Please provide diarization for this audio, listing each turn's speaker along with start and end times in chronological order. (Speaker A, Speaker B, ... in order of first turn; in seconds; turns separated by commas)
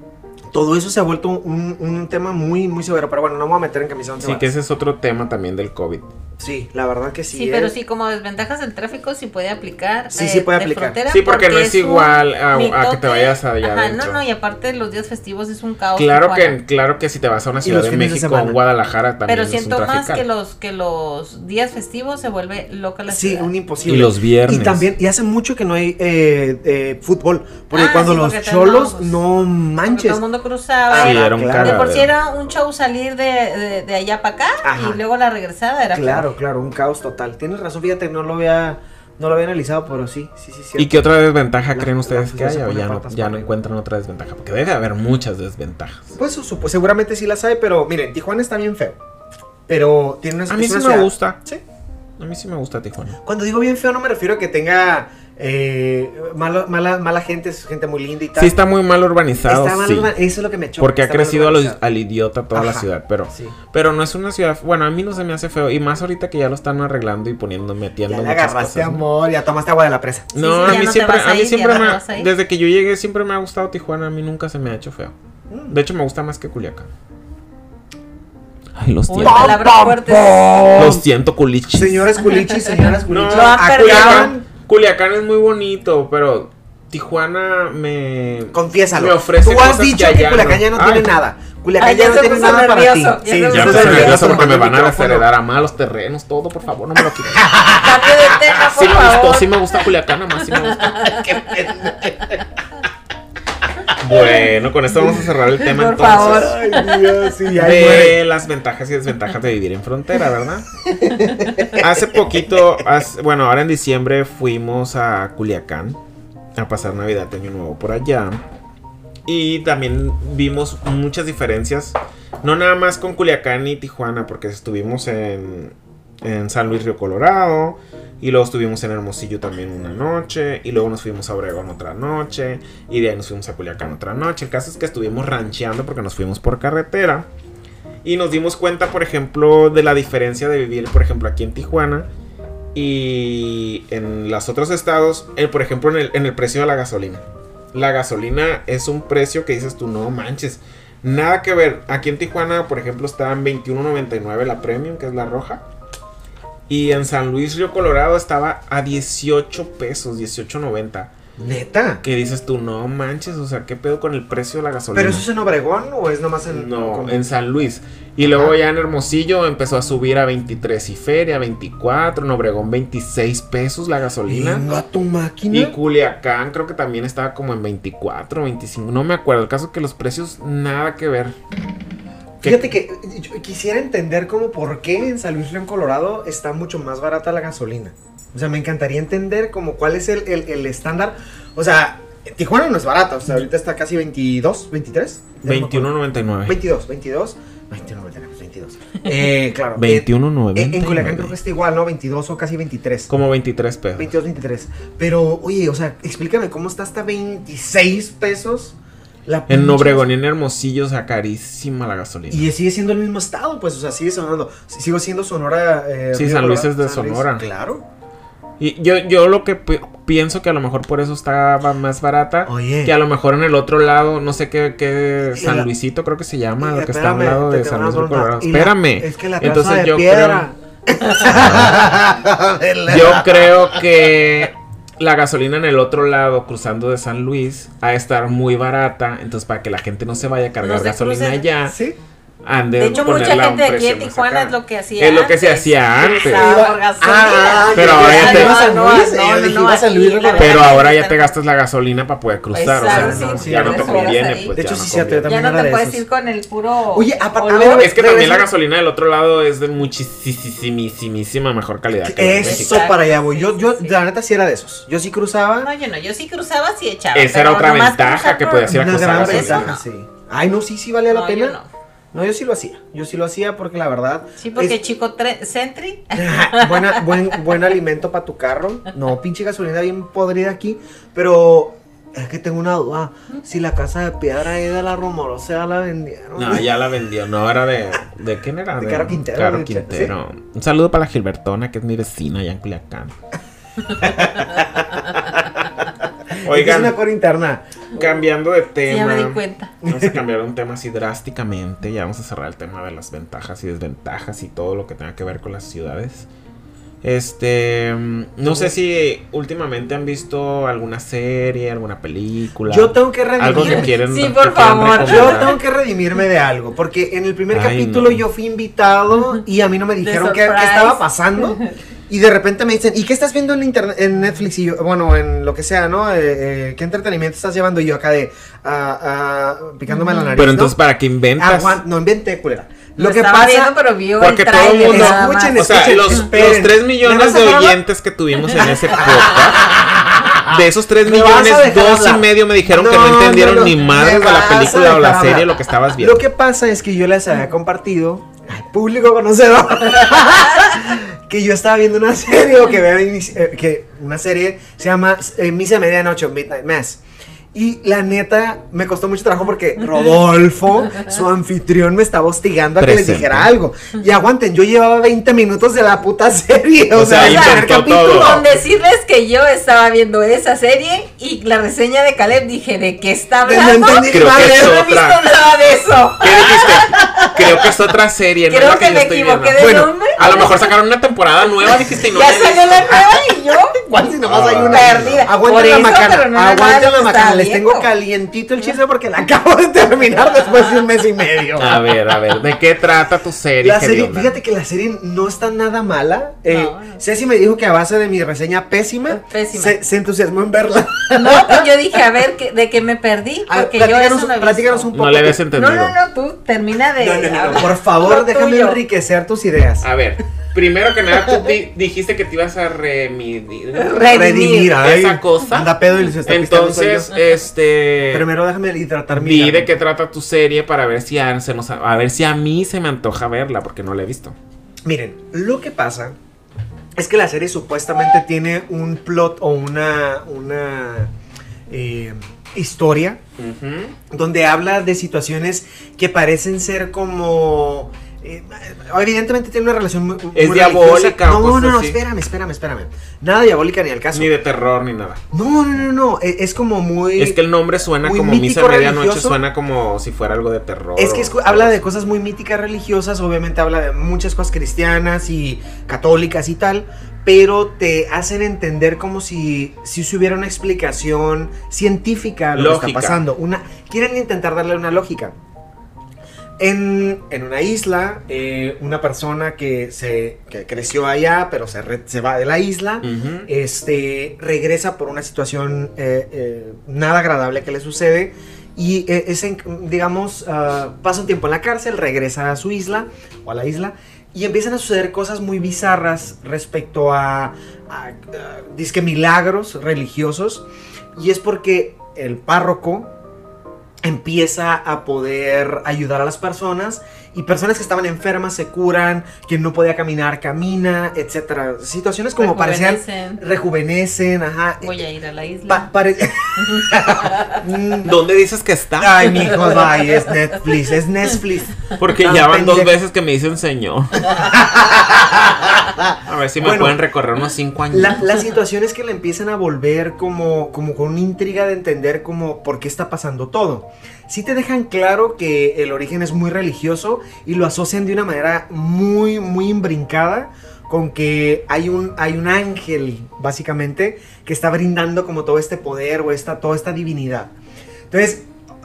Speaker A: 0.5-4.5, Speaker B: 4.2-6.1, Speaker A: 6.4-7.7, Speaker C: 7.3-16.6, Speaker A: 10.1-11.0, Speaker B: 11.1-14.2, Speaker B: 15.9-20.2, Speaker A: 17.6-18.6, Speaker C: 19.3-23.5, Speaker A: 23.1-30.2, Speaker B: 23.9-24.9, Speaker C: 27.7-29.2, Speaker C: 29.8-36.3, Speaker A: 30.9-31.9, Speaker B: 30.9-32.1, Speaker A: 34.6-35.0, Speaker A: 35.9-41.1, Speaker B: 40.8-46.1, Speaker A: 41.7-43.5, Speaker A: 46.1-49.0, Speaker A: 49.7-51.6, Speaker B: 50.5-51.4, Speaker B: 52.2-53.2, Speaker A: 53.2-58.5, Speaker B: 58.4-60.1, Speaker A: 59.5-61.8, Speaker B: 60.8-69.0, Speaker A: 62.5-63.5, Speaker A: 68.1-70.8, Speaker B: 70.3-75.1, Speaker C: 70.4-72.3, Speaker A: 75.5-75.8, Speaker B: 75.7-76.9, Speaker B: 78.8-79.6, Speaker C: 79.1-80.9, Speaker A: 79.2-81.0, Speaker B: 80.7-82.2, Speaker A: 81.7-84.4, Speaker B: 83.1-91.1, Speaker C: 83.3-84.3, Speaker A: 88.5-95.3, Speaker C: 91.8-94.5, Speaker B: 93.5-97.4, Speaker A: 97.3-98.7, Speaker C: 97.7-99.5, Speaker B: 98.7-101.2, Speaker C: 100.6-102.1, Speaker A: 101.2-102.5, Speaker B: 104.0-106.5, Speaker C: 104.2-104.4, Speaker C: 105.6-107.4, Speaker A: 106.0-108.2, Speaker B: 107.5-110.7, Speaker A: 110.8-111.9, Speaker C: 111.2-111.7, Speaker B: 111.6-116.0, Speaker B: 116.5-118.4, Speaker B: 119.2-137.3, Speaker B: 138.0-142.1, Speaker B: 142.7-155.6, Speaker B: 156.7-161.1, Speaker A: 161.4-162.0, Speaker B: 162.0-165.2, Speaker A: 164.9-167.3, Speaker B: 166.5-174.6, Speaker A: 168.2-168.6, Speaker A: 174.3-175.8, Speaker B: 175.5-181.3, Speaker B: 182.4-182.7, Speaker A: 182.4-195.9, Speaker B: 195.4-196.6, Speaker A: 196.4-203.1, Speaker B: 199.7-201.3, Speaker B: 203.1-204.1, Speaker A: 203.9-210.1, Speaker B: 209.5-212.4, Speaker A: 212.3-217.8, Speaker B: 216.1-217.4, Speaker B: 218.6-230.5, Speaker A: 222.4-222.9, Speaker A: 225.3-225.7, Speaker A: 226.6-233.7, Speaker B: 231.3-231.8, Speaker B: 232.9-241.7, Speaker C: 240.6-241.5, Speaker A: 241.7-242.0, Speaker B: 242.4-246.6, Speaker C: 242.8-251.3, Speaker A: 246.0-250.8, Speaker B: 247.7-248.6, Speaker B: 250.3-255.3, Speaker C: 252.5-254.5, Speaker A: 252.8-256.0, Speaker C: 255.2-257.9, Speaker A: 256.9-258.5, Speaker B: 257.7-262.9, Speaker A: 262.0-265.7, Speaker C: 262.4-263.9, Speaker C: 265.6-269.7, Speaker B: 267.1-269.8, Speaker A: 268.7-271.6, Speaker C: 271.1-271.7, Speaker A: 272.1-274.8, Speaker C: 274.4-277.2, Speaker A: 276.1-286.7, Speaker B: 286.3-293.1, Speaker A: 288.8-290.1, Speaker A: 293.9-295.6, Speaker A: 296.3-297.6, Speaker B: 296.4-296.9, Speaker B: 297.9-306.3, Speaker C: 298.9-299.7, Speaker A: 299.8-300.2, Speaker B: 307.0-315.6, Speaker A: 308.4-308.7, Speaker A: 312.7-314.0, Speaker C: 313.6-315.5, Speaker A: 314.9-330.8, Speaker B: 317.5-318.2, Speaker C: 320.0-321.7, Speaker C: 329.9-330.4, Speaker B: 330.4-331.8, Speaker A: 331.4-333.7, Speaker C: 333.0-335.8, Speaker B: 334.2-339.8, Speaker A: 334.7-337.8, Speaker A: 338.4-357.0, Speaker C: 338.5-339.3, Speaker B: 340.4-346.2, Speaker A: 357.5-368.4, Speaker B: 362.8-363.5, Speaker B: 366.9-368.4, Speaker C: 367.2-377.1, Speaker A: 373.4-374.8, Speaker B: 374.0-375.2, Speaker B: 376.2-383.0, Speaker A: 377.0-377.7, Speaker C: 378.5-380.6, Speaker C: 382.0-383.8, Speaker A: 382.9-391.9, Speaker B: 384.2-385.2, Speaker C: 384.7-387.9, Speaker B: 391.6-394.4, Speaker A: 393.6-401.7, Speaker C: 396.5-397.0, Speaker C: 399.1-399.8, Speaker C: 401.1-404.9, Speaker A: 403.4-405.4, Speaker B: 404.9-405.9, Speaker C: 405.5-408.8, Speaker A: 407.0-409.9, Speaker B: 409.8-418.3, Speaker C: 413.7-414.8, Speaker A: 414.0-417.1, Speaker A: 418.1-419.7, Speaker B: 419.1-424.3, Speaker A: 424.8-426.2, Speaker A: 426.9-431.1, Speaker A: 431.7-433.2, Speaker B: 433.4-433.9, Speaker A: 434.1-444.3, Speaker B: 440.3-442.0, Speaker B: 444.1-445.2, Speaker A: 445.3-447.4, Speaker B: 447.2-451.8, Speaker A: 448.0-449.4, Speaker A: 450.9-465.3, Speaker B: 462.5-463.2, Speaker A: 466.6-493.1, Speaker B: 473.0-473.5, Speaker A: 494.0-505.0, Speaker C: 502.4-503.4, Speaker C: 504.8-505.9, Speaker A: 505.7-508.2, Speaker C: 506.6-507.6, Speaker B: 508.0-509.6, Speaker A: 509.0-513.0, Speaker C: 509.5-510.3, Speaker B: 512.0-514.6, Speaker A: 514.3-517.0, Speaker B: 516.2-518.2, Speaker A: 517.9-537.5, Speaker A: 538.1-538.5